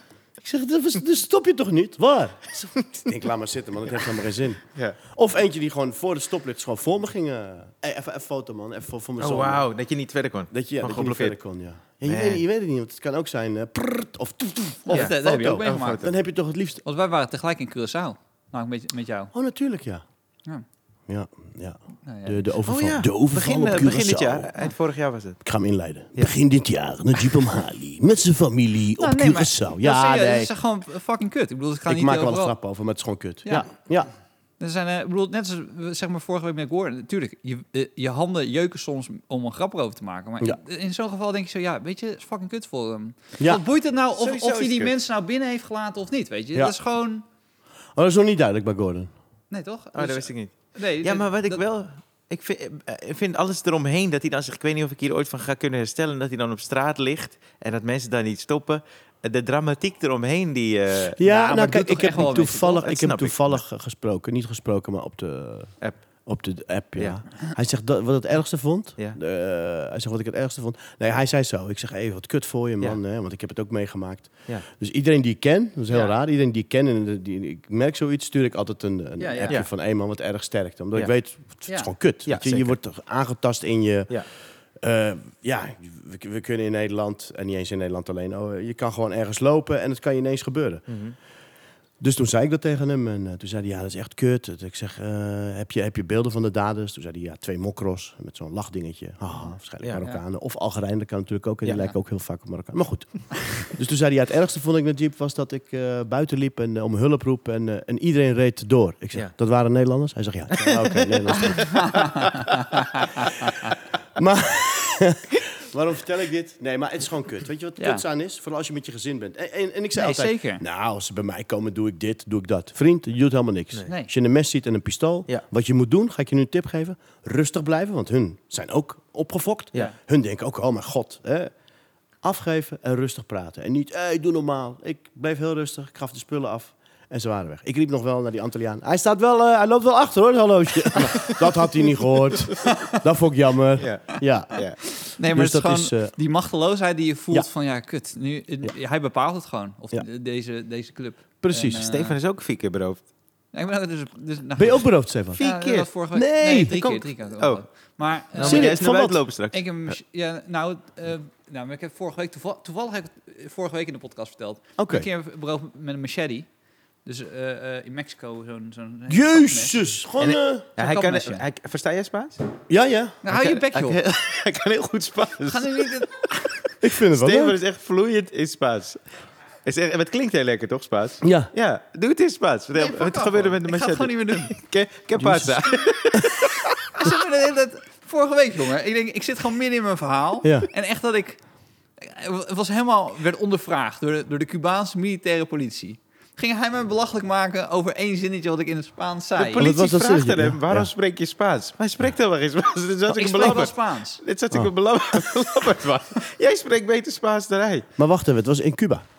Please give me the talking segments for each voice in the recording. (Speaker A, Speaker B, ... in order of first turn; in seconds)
Speaker A: 0.4-9.7, 10.5-16.8, 19.3-20.0, 21.1-24.5, 25.4-30.5, 31.9-34.1, 48.0-49.1, 61.1-65.7, 66.2-84.2, 84.8-90.8, 92.0-112.0, 114.2-131.5, 132.2-144.6, 145.3-146.1, 151.4-151.8, 154.6-155.4, 156.1-156.8, 158.4-159.2, 164.8-165.1, 169.1-170.7, 172.7-173.2, 176.8-177.6, 181.2-181.5, 185.2-185.6, 190.4-190.7, 199.6-200.9, 208.0-209.0
Speaker B: 9.2-11.4, 12.0-12.4, 14.9-16.1, 22.6-25.4, 44.2-44.9, 49.9-61.2, 62.7-63.6, 82.2-82.8, 90.9-91.1, 101.6-101.9, 110.6-111.1, 112.0-112.3, 143.8-144.8, 151.8-153.0, 155.4-155.9, 156.7-157.6, 158.3-159.6, 170.2-172.4, 173.3-175.9, 177.0-179.0, 179.6-186.7, 199.4-207.9
Speaker C: 14.8-16.0, 16.8-19.3, 22.0-22.5, 29.0-32.5, 33.4-33.7, 34.6-47.2, 49.5-51.6, 61.2-62.8, 79.2-79.6, 111.4-113.7, 117.8-118.0, 120.0-120.6, 142.6-143.0, 145.0-152.2, 153.5-158.8, 159.5-166.5, 167.0-169.8, 170.8-171.4, 173.2-174.0, 175.4-176.6, 182.7-184.5, 186.9-191.4, 192.0-199.7, 203.1-204.2